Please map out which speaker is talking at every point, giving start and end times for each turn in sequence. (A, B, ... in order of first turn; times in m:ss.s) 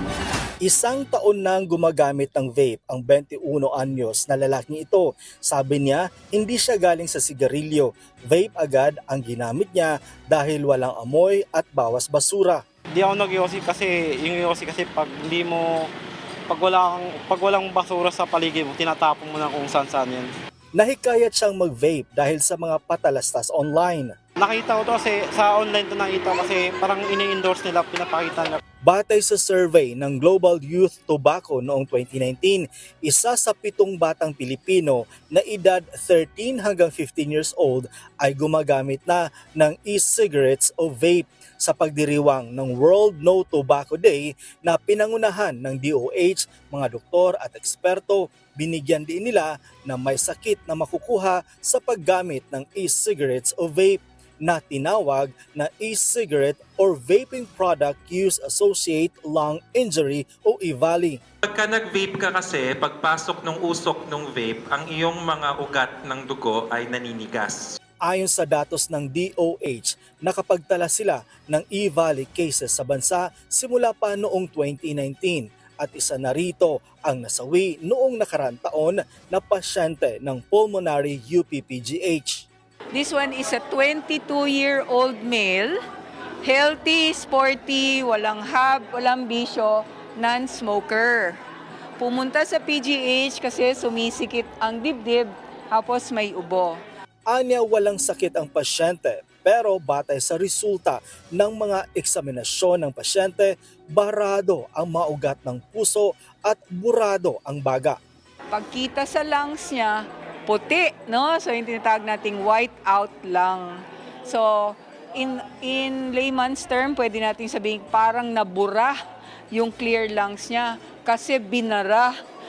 0:00.6-0:12.6 A
0:12.9-0:15.9 B
0:16.5-0:20.3 B
0:20.8-0:24.1 A
0:24.4-0:28.6 B
0:28.8-1:01.2 A
1:01.4-1:07.6 C
1:08.0-1:22.5 A
1:22.9-1:25.8 D
1:26.4-1:31.4 D
1:32.0-1:36.8 D
1:37.3-1:48.0 A
1:48.5-1:59.0 D
1:59.5-2:02.1 D